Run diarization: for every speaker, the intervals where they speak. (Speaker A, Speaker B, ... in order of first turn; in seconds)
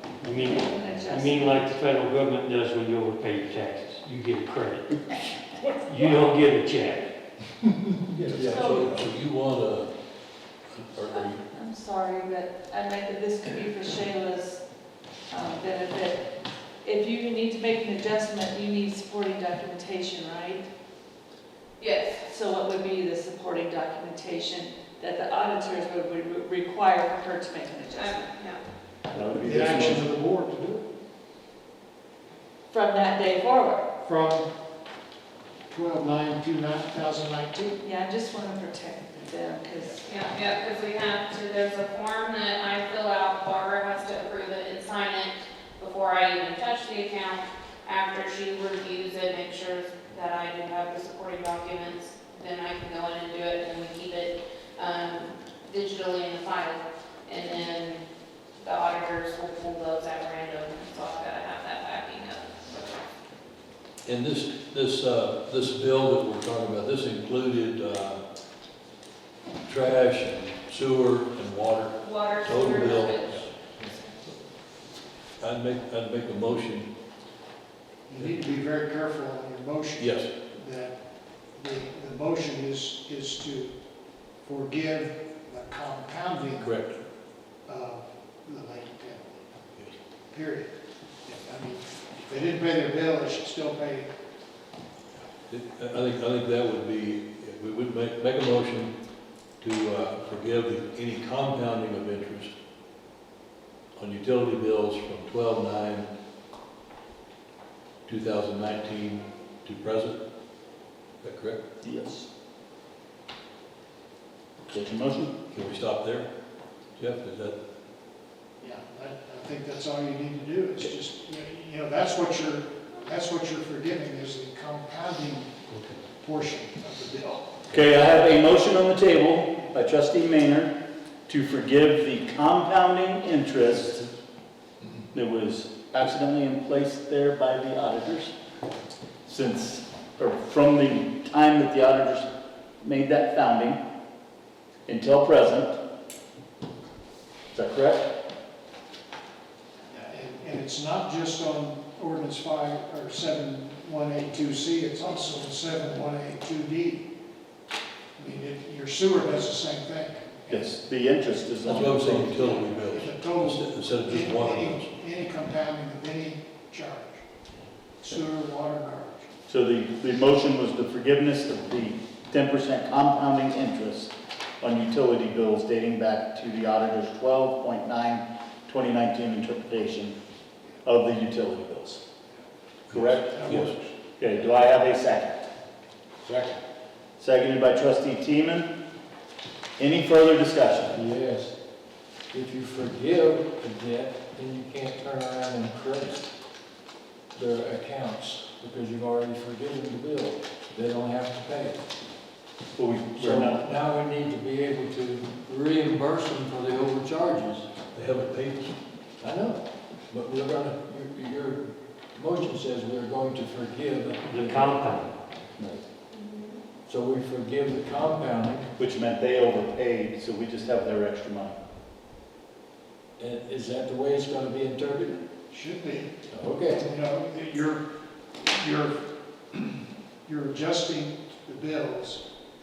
Speaker A: 0.2-0.6, 1.1-5.1, 5.8-7.1, 214.2-215.1
Speaker B: 0.4-1.7, 8.3-9.0, 11.1-14.7, 15.3-16.2, 16.8-20.7, 22.2-28.3, 32.7-33.8, 37.8-40.0
Speaker C: 8.2-9.9, 10.7-11.4, 64.0-68.2, 69.7-74.3, 75.4-76.9, 78.1-78.5, 80.0-80.3, 86.6-87.0, 95.5-98.9, 99.6-102.5, 104.0-106.1, 108.0-110.2, 111.2-111.6, 115.5-116.3, 117.0-117.6, 161.6-164.9, 182.9-183.7, 207.9-208.7
Speaker D: 21.8-22.2, 27.9-28.6, 40.0-58.0, 58.6-63.0, 72.0-73.4, 216.1-216.6
Speaker E: 29.1-30.0, 111.8-112.3, 114.7-115.3, 127.7-130.7, 131.3-133.9, 135.1-138.3, 139.2-142.3, 142.8-143.8, 144.9-145.7, 147.5-148.0, 160.5-162.6, 169.5-180.1, 180.8-182.0, 182.9-183.4, 184.2-185.4, 187.2-188.7, 189.8-191.0, 202.7-203.6, 215.6-215.8, 218.8-221.6
Speaker F: 29.3-30.8, 34.0-34.5, 35.7-37.8, 78.1-83.8, 84.4-86.7, 87.7-89.4, 90.3-94.1, 118.6-125.5, 126.2-127.7, 149.9-157.1, 158.2-160.7, 162.4-167.2, 168.0-169.3, 183.2-183.9, 225.5-226.2, 226.7-227.8, 228.3-232.2
Speaker G: 186.3-186.5, 190.9-191.5, 192.3-196.3, 197.3-201.8, 203.2-207.7, 209.2-214.9, 216.9-218.7, 223.2-225.2, 226.3-226.9